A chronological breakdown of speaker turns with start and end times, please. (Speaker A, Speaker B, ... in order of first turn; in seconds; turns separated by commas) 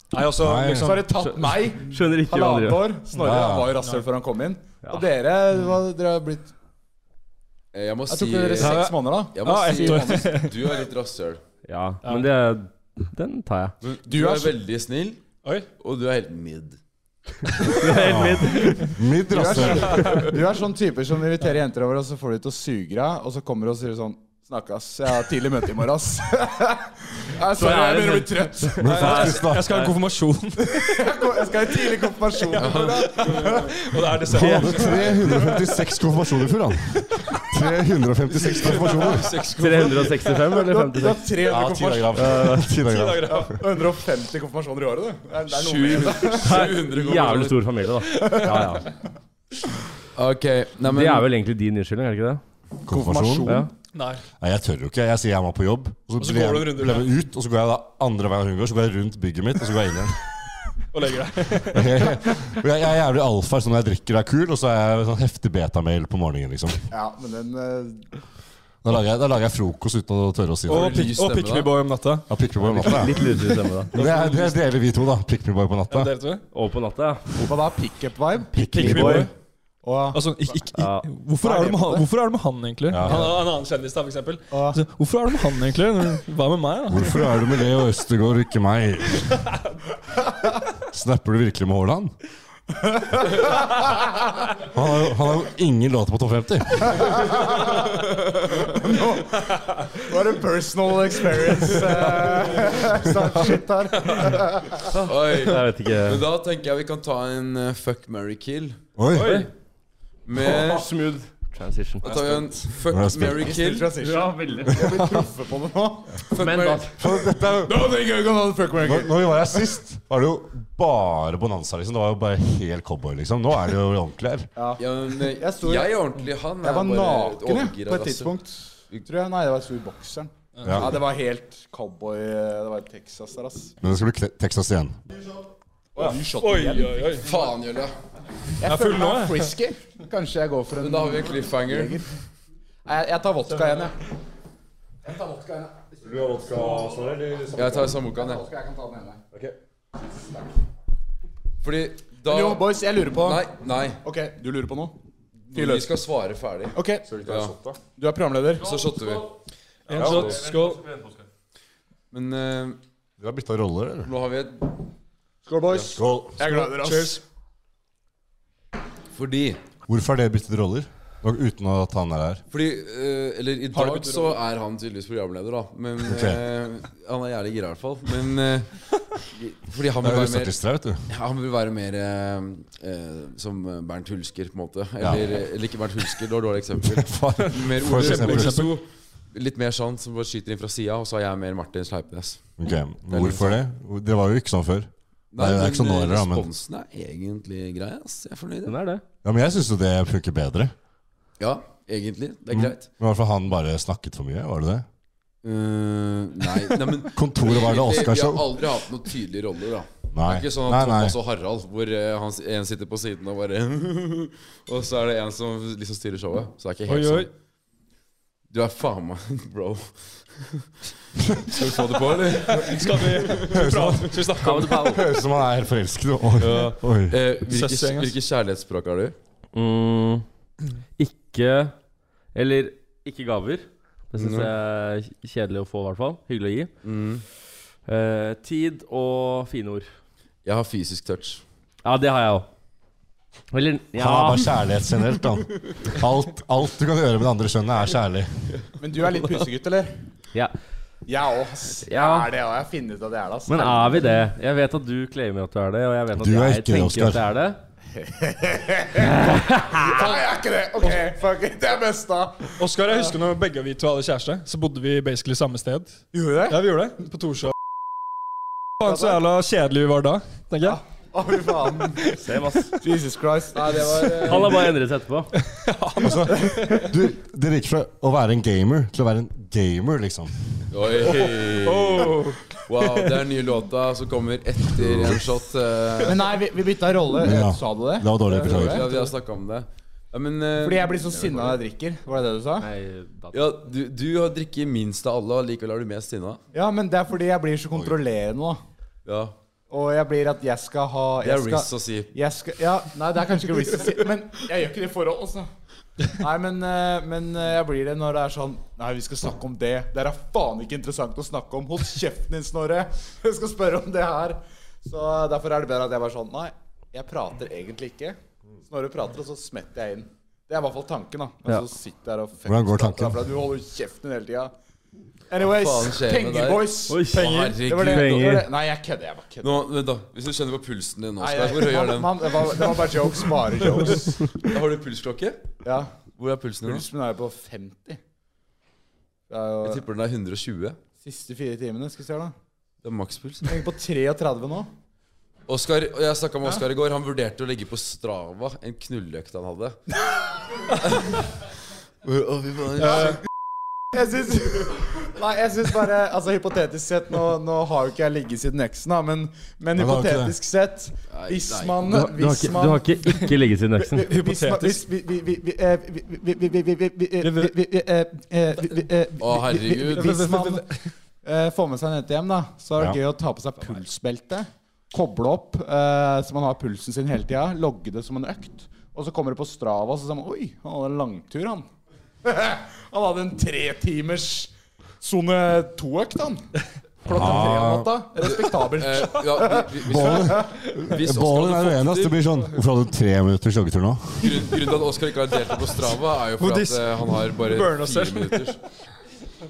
Speaker A: 0.1-1.1, Speaker B: 0.4-1.1, Speaker C: 0.7-6.5, Speaker D: 1.1-3.0, Speaker A: 3.2-4.0, Speaker B: 3.2-3.8, Speaker E: 7.7-11.4, Speaker C: 8.1-10.3, Speaker A: 8.6-10.6, Speaker D: 11.7-13.7, Speaker A: 12.0-12.3, Speaker E: 13.8-15.2, Speaker C: 14.1-14.6, Speaker E: 15.8-16.8, Speaker D: 17.6-18.9, Speaker B: 17.9-20.2, Speaker C: 19.3-28.9, Speaker A: 19.8-20.1, Speaker E: 20.0-20.3, Speaker D: 27.5-29.9, Speaker B: 28.8-29.9, Speaker A: 28.8-31.1, Speaker C: 30.6-34.1, Speaker A: 32.4-35.7, Speaker E: 32.5-33.6, Speaker B: 34.3-39.3, Speaker A: 37.1-37.4, Speaker A: 38.4-40.5, Speaker D: 39.6-41.3, Speaker C: 40.5-42.6, Speaker B: 41.4-43.6, Speaker D: 42.1-42.7, Speaker A: 42.8-43.6, Speaker C: 43.3-46.7, Speaker E: 45.5-47.6, Speaker D: 46.3-48.9, Speaker C: 48.2-48.8, Speaker E: 50.1-51.3, Speaker D: 50.8-52.4, Speaker B: 52.9-53.6, Speaker C: 52.9-53.7, Speaker A: 53.9-54.2, Speaker B: 54.4-60.2, Speaker A: 56.2-57.1, Speaker A: 60.9-62.4, Speaker B: 61.6-66.8, Speaker C: 66.9-68.0, Speaker B: 68.8-71.1, Speaker E: 70.7-71.7, Speaker A: 70.7-73.3, Speaker B: 72.3-73.2, Speaker D: 72.7-73.9, Speaker A: 73.9-74.5, Speaker B: 73.9-76.1, Speaker A: 75.9-76.4, Speaker D: 76.5-77.3, Speaker C: 77.4-79.2, Speaker B: 78.5-79.3, Speaker A: 78.7-79.3, Speaker D: 78.8-79.3, Speaker C: 79.8-80.6, Speaker A: 80.1-87.3, Speaker D: 80.7-81.1, Speaker C: 81.4-82.1, Speaker B: 82.9-83.4, Speaker C: 84.5-84.8, Speaker B: 86.9-89.4, Speaker B: 90.9-92.1, Speaker C: 92.7-94.2, Speaker B: 94.6-97.2, Speaker C: 97.0-97.9, Speaker C: 98.6-104.9, Speaker D: 104.9-106.2, Speaker E: 105.0-108.8, Speaker B: 109.0-109.4, Speaker A: 109.1-109.5, Speaker D: 109.1-109.5, Speaker E: 110.3-110.9, Speaker D: 110.4-112.2, Speaker E: 112.0-114.0, Speaker C: 112.1-112.6, Speaker B: 112.9-113.5, Speaker C: 113.2-116.3, Speaker D: 114.0-114.9, Speaker B: 114.7-115.2, Speaker E: 116.3-116.9, Speaker D: 116.3-116.9, Speaker B: 117.0-117.9, Speaker C: 117.5-119.8, Speaker B: 118.8-124.5, Speaker C: 124.6-126.0, Speaker E: 124.8-128.3, Speaker C: 126.6-133.7, Speaker A: 130.6-130.9, Speaker B: 130.6-130.9, Speaker B: 133.8-135.0, Speaker C: 135.9-137.3, Speaker A: 136.2-137.3, Speaker E: 137.2-137.9, Speaker C: 138.6-142.1, Speaker A: 138.6-139.5, Speaker E: 140.8-142.0, Speaker C: 142.8-144.0, Speaker C: 145.0-149.2, Speaker B: 146.0-147.9, Speaker E: 147.6-148.4, Speaker E: 151.6-154.0, Speaker C: 152.3-153.4, Speaker C: 154.0-154.9, Speaker E: 155.5-157.6, Speaker C: 155.5-155.9, Speaker C: 156.7-157.1, Speaker B: 157.0-157.8, Speaker C: 158.0-158.7, Speaker E: 158.6-159.3, Speaker D: 158.6-159.3, Speaker A: 159.9-160.9, Speaker B: 159.9-160.3, Speaker E: 160.0-160.3, Speaker D: 160.0-161.2, Speaker E: 162.1-162.8, Speaker B: 163.2-164.1, Speaker E: 164.1-164.8, Speaker C: 165.4-167.2, Speaker B: 165.9-166.4, Speaker A: 166.4-167.2, Speaker E: 169.1-169.6, Speaker B: 169.9-172.4, Speaker E: 172.5-180.6, Speaker A: 173.7-174.4, Speaker B: 176.0-176.4, Speaker B: 180.0-181.1, Speaker E: 181.1-192.5, Speaker B: 185.0-185.3, Speaker B: 186.8-188.6, Speaker A: 187.9-188.7, Speaker B: 192.6-196.5, Speaker E: 193.1-193.6, Speaker E: 195.3-198.8, Speaker D: 198.7-199.0, Speaker B: 199.2-200.7, Speaker E: 201.4-202.9, Speaker B: 202.5-204.9, Speaker E: 205.4-217.3, Speaker B: 207.1-208.6, Speaker B: 210.1-211.2, Speaker A: 216.9-217.3, Speaker E: 218.5-220.7, Speaker B: 221.2-221.7, Speaker E: 221.5-223.7, Speaker A: 222.4-225.0, Speaker B: 223.5-227.2, Speaker D: 224.4-225.0, Speaker E: 226.4-229.2, Speaker A: 227.5-228.1, Speaker D: 229.5-230.2, Speaker D: 231.0-231.8, Speaker D: 232.3-236.7, Speaker E: 234.2-234.5, Speaker E: 236.8-237.2, Speaker D: 237.9-239.9, Speaker E: 240.4-241.4, Speaker D: 241.8-242.5, Speaker D: 243.5-244.5, Speaker B: 243.9-248.4, Speaker C: 248.8-250.0, Speaker C: 251.1-254.2, Speaker D: 251.9-252.3, Speaker D: 253.5-257.6, Speaker B: 256.1-257.2, Speaker C: 258.0-263.1, Speaker D: 259.0-260.0, Speaker A: 262.6-267.5, Speaker C: 266.1-266.6, Speaker A: 268.8-270.8, Speaker C: 268.8-269.2, Speaker C: 270.6-272.0, Speaker A: 271.8-272.2, Speaker D: 272.1-272.8, Speaker C: 272.8-274.7, Speaker A: 274.0-274.6, Speaker D: 274.1-275.3, Speaker A: 275.4-276.9, Speaker B: 276.0-280.3, Speaker C: 276.3-276.6, Speaker E: 280.7-286.4, Speaker A: 281.1-283.1, Speaker B: 284.8-285.2, Speaker C: 286.0-289.1, Speaker B: 287.2-288.9, Speaker E: 288.3-291.6, Speaker C: 290.6-292.7, Speaker D: 292.6-293.5, Speaker E: 293.3-296.4, Speaker C: 296.5-298.6, Speaker E: 299.1-299.4, Speaker C: 299.7-305.5, Speaker E: 301.2-302.1, Speaker C: 306.1-324.5, Speaker B: 322.5-323.3, Speaker C: 325.3-329.6, Speaker E: 325.4-328.4, Speaker D: 326.9-328.5, Speaker A: 327.1-327.6, Speaker E: 329.4-332.9, Speaker C: 331.2-334.4, Speaker E: 333.6-335.4, Speaker C: 335.6-335.9, Speaker E: 336.1-336.9, Speaker C: 336.6-338.0, Speaker C: 339.3-339.8, Speaker E: 339.6-340.8, Speaker C: 341.0-342.3, Speaker E: 342.8-343.6, Speaker C: 343.4-344.7, Speaker E: 345.5-349.8, Speaker E: 350.9-351.2, Speaker E: 352.1-353.1, Speaker A: 352.8-353.2, Speaker C: 353.9-363.3, Speaker B: 359.7-360.4, Speaker E: 361.1-361.8, Speaker D: 361.9-364.1, Speaker C: 363.9-370.7, Speaker A: 364.0-364.8, Speaker A: 367.2-367.5, Speaker E: 369.2-370.2, Speaker A: 369.9-370.7, Speaker C: 371.2-381.7, Speaker C: 382.2-384.5, Speaker C: 385.0-386.4, Speaker C: 387.1-390.4, Speaker B: 387.1-388.0, Speaker E: 388.8-392.2, Speaker B: 389.9-394.5, Speaker E: 394.2-398.6, Speaker A: 396.4-398.6